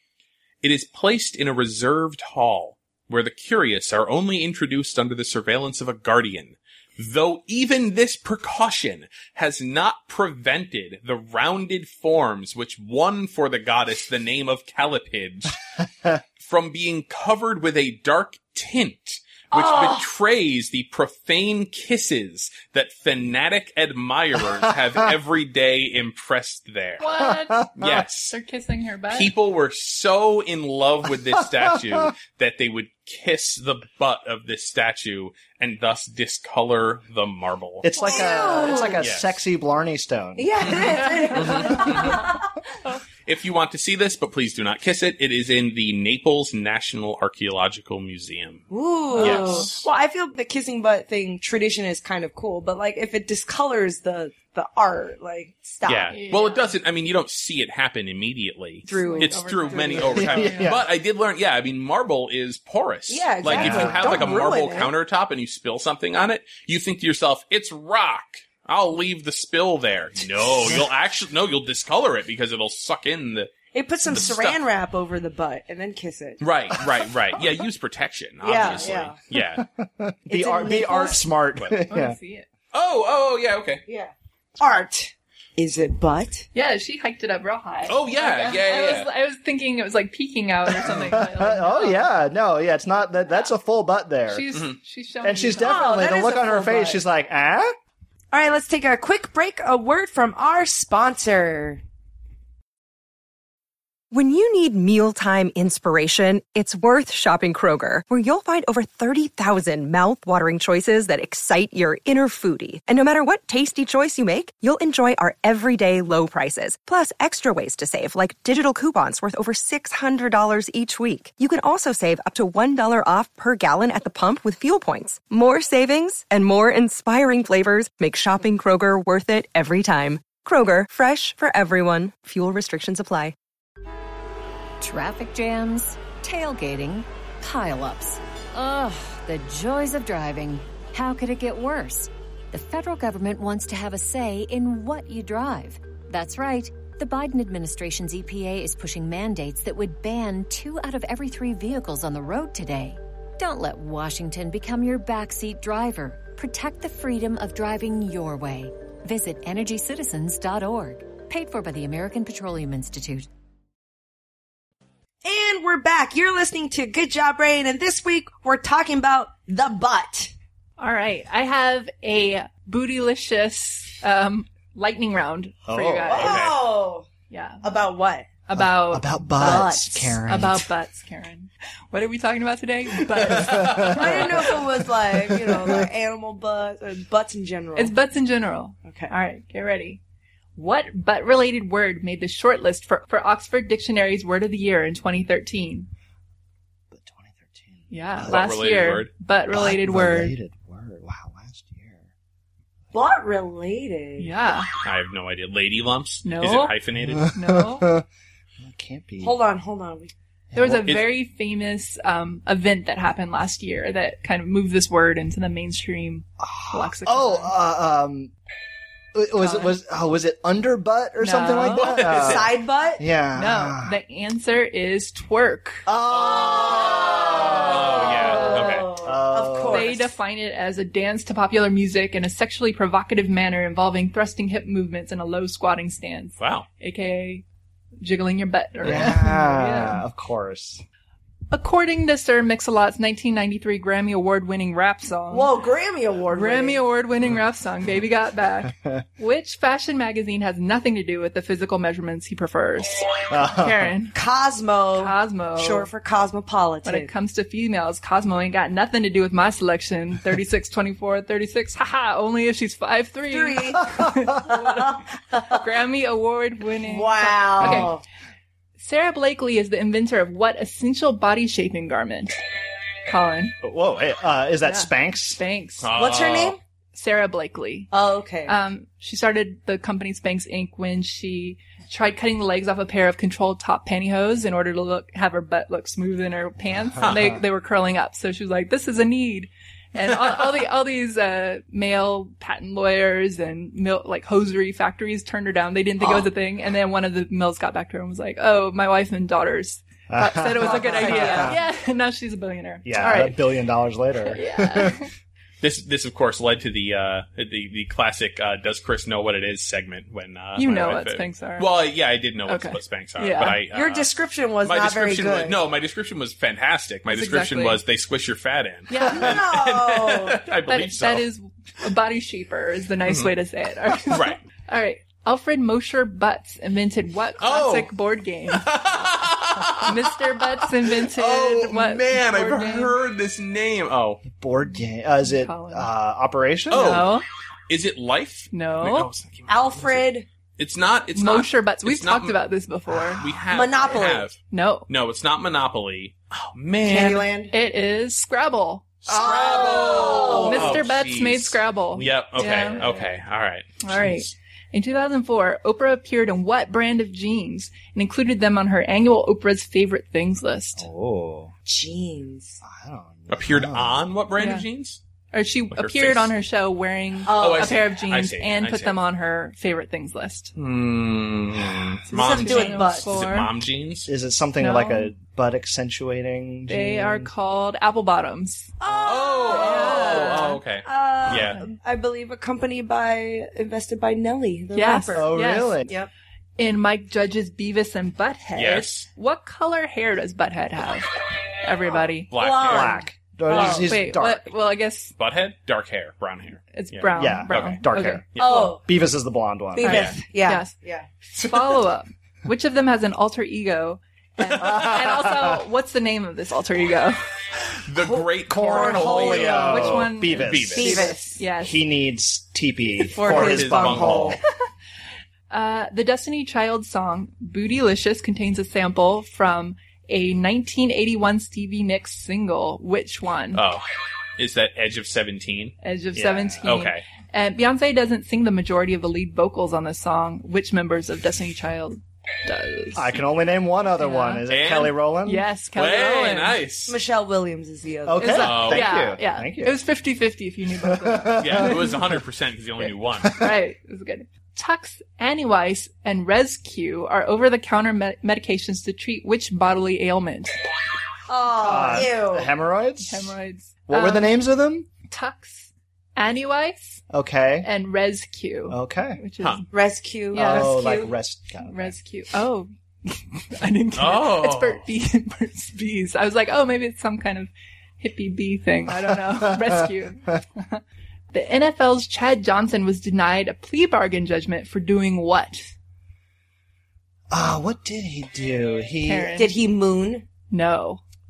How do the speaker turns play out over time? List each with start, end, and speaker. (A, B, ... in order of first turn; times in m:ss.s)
0:00.6-0:15.6 A
0:16.4-0:27.2 A
0:19.5-0:20.0 B
0:27.0-0:27.7 C
0:27.3-0:28.0 D
0:27.8-0:28.4 A
0:28.3-0:29.3 C
0:29.1-0:37.9 A
0:37.8-0:41.0 D
0:38.0-0:38.7 C
0:38.0-0:39.0 B
0:39.0-0:39.4 A
0:40.4-0:42.4 B
0:41.0-0:42.2 C
0:41.4-0:42.2 A
0:43.2-0:49.8 A
0:48.7-0:56.1 B
0:49.1-0:49.7 C
0:55.8-1:13.5 A
0:56.1-0:56.7 C
0:58.8-1:00.4 B
0:58.9-1:00.7 C
1:00.1-1:00.8 D
1:03.1-1:04.9 B
1:03.4-1:04.5 D
1:13.7-1:16.4 B
1:14.1-1:14.6 A
1:16.4-1:19.6 A
1:18.4-1:19.2 B
1:19.3-1:22.2 D
1:20.3-1:21.2 B
1:21.9-1:22.5 C
1:22.7-1:23.8 A
1:23.9-1:26.5 B
1:26.5-1:32.0 C
1:27.9-1:29.1 A
1:30.8-1:31.2 A
1:30.8-1:34.5 D
1:34.3-1:36.1 C
1:35.2-1:37.7 D
1:35.6-1:37.0 B
1:38.3-1:41.8 B
1:44.1-2:13.3 E
2:14.8-2:43.3 F
2:45.2-2:50.3 B
2:50.8-2:56.5 C
2:55.7-2:56.3 D
2:56.1-2:57.1 B
2:56.2-2:56.6 A
2:57.3-2:57.6 C
2:57.6-2:58.3 B
2:58.5-3:04.6 C
2:58.5-3:00.7 D
2:59.4-3:00.1 B
3:03.1-3:04.6 D
3:03.8-3:07.9 B
3:05.2-3:05.8 D
3:07.8-3:10.0 C
3:08.8-3:09.1 B
3:10.6-3:15.9 C
3:16.9-3:18.4 D
3:17.9-3:20.3 C
3:18.2-3:19.1 A
3:19.5-3:22.0 D
3:22.9-3:24.3 B
3:24.2-3:24.7 C
3:24.8-3:27.3 A
3:26.2-3:26.7 C
3:27.1-3:28.0 D
3:27.3-3:27.9 C
3:28.6-3:29.3 D
3:29.2-3:30.1 B
3:30.5-3:31.0 D
3:30.6-3:37.5 C
3:36.4-3:38.3 D
3:39.1-3:43.9 D
3:39.4-3:39.7 C
3:41.2-3:42.1 C
3:41.8-3:42.4 A
3:42.2-3:43.0 B
3:43.4-3:45.8 C
3:45.8-3:47.8 D
3:46.2-3:50.1 B
3:47.3-3:48.6 C
3:47.6-3:48.9 A
3:49.0-3:49.9 D
3:49.7-3:57.4 C
3:56.4-3:56.7 A
3:58.0-4:00.0 C
3:58.8-4:00.8 D
4:01.5-4:05.5 C
4:05.3-4:06.8 B
4:06.3-4:14.1 C
4:13.3-4:13.9 D
4:14.1-4:17.1 B
4:15.0-4:15.9 C
4:16.8-4:28.0 C
4:23.3-4:25.6 B
4:24.0-4:24.3 D
4:26.8-4:28.0 B
4:27.6-4:27.9 D
4:28.8-4:32.4 C
4:33.0-4:33.6 C
4:33.6-4:35.4 D
4:34.6-4:35.9 C
4:35.8-4:36.6 A
4:35.9-4:36.6 B
4:36.9-4:37.9 C
4:37.9-4:38.5 B
4:38.5-5:03.5 C
4:47.0-4:47.4 A
5:00.1-5:01.6 D
5:00.6-5:01.5 B
5:02.8-5:05.0 D
5:04.2-5:05.1 C
5:05.6-5:14.1 A
5:10.6-5:11.7 C
5:12.5-5:13.6 C
5:13.7-5:15.6 B
5:14.6-5:21.3 A
5:17.1-5:17.8 C
5:18.9-5:19.4 C
5:19.1-5:20.4 B
5:20.7-5:28.9 C
5:23.0-5:23.3 A
5:24.0-5:24.4 A
5:27.4-5:27.9 A
5:28.5-5:34.2 A
5:29.8-5:33.0 C
5:34.3-5:37.1 D
5:35.2-5:35.9 C
5:36.7-5:37.2 C
5:36.7-5:40.0 A
5:38.5-5:39.1 C
5:39.5-5:40.2 B
5:40.6-5:42.4 A
5:41.1-5:43.3 C
5:42.9-5:43.2 D
5:43.2-5:47.3 A
5:43.5-5:44.3 B
5:44.5-5:44.9 C
5:46.8-5:47.5 B
5:47.5-5:48.9 C
5:49.0-5:54.3 A
5:49.1-5:50.4 D
5:49.1-5:50.8 B
5:50.3-5:52.9 C
5:52.4-5:53.1 D
5:53.8-6:00.8 C
6:00.8-6:01.5 D
6:01.6-6:02.6 B
6:02.6-6:04.0 D
6:03.3-6:05.0 A
6:04.4-6:04.6 C
6:05.3-6:10.5 C
6:05.7-6:06.3 A
6:07.2-6:07.8 B
6:07.3-6:09.0 A
6:10.6-6:14.1 A
6:12.1-6:13.5 C
6:12.1-6:13.1 B
6:14.1-6:17.3 D
6:14.6-6:15.1 C
6:16.7-6:18.7 C
6:18.8-6:25.3 B
6:19.0-6:21.6 A
6:19.5-6:20.6 C
6:24.7-6:25.8 C
6:25.1-6:25.9 D
6:26.6-6:32.3 C
6:28.5-6:29.1 A
6:32.3-6:33.0 A
6:32.3-6:33.9 B
6:32.6-6:34.5 D
6:33.5-6:35.1 C
6:35.2-6:37.8 A
6:36.7-6:38.7 C
6:37.2-6:38.2 D
6:38.3-6:38.7 A
6:38.4-6:38.8 B
6:38.8-6:40.1 D
6:39.8-6:41.1 B
6:39.8-6:47.2 C
6:39.9-6:40.2 A
6:44.6-6:45.6 D
6:47.8-6:51.1 A
6:48.0-6:49.9 B
6:48.4-6:54.4 D
6:49.6-6:51.8 C
6:50.7-6:51.4 B
6:53.1-6:54.4 B
6:53.2-6:54.4 A
6:55.5-7:03.6 C
7:03.5-7:03.8 A
7:04.4-7:05.7 A
7:05.8-7:13.2 C
7:06.1-7:06.6 D
7:06.6-7:07.0 A
7:12.9-7:15.5 D
7:13.9-7:14.4 C
7:14.5-7:14.9 A
7:15.2-7:16.6 C
7:15.7-7:17.0 A
7:16.9-7:18.5 B
7:18.0-7:19.8 D
7:18.2-7:22.0 C
7:18.4-7:18.9 A
7:20.8-7:22.2 D
7:21.4-7:23.4 A
7:23.4-7:30.6 C
7:31.3-7:32.5 B
7:31.6-7:32.1 C
7:31.6-7:33.3 D
7:33.1-7:34.4 C
7:33.8-7:34.9 D
7:35.1-7:37.0 C
7:37.1-7:37.7 D
7:37.6-7:39.7 C
7:38.7-7:39.2 D
7:39.7-7:41.1 B
7:40.3-7:40.9 C
7:40.3-7:42.0 D
7:41.6-7:55.7 C
7:44.0-7:44.8 A
7:48.9-7:49.9 D
7:57.3-7:59.4 D
7:59.0-7:59.6 C
7:59.4-8:00.2 B
8:00.5-8:01.0 C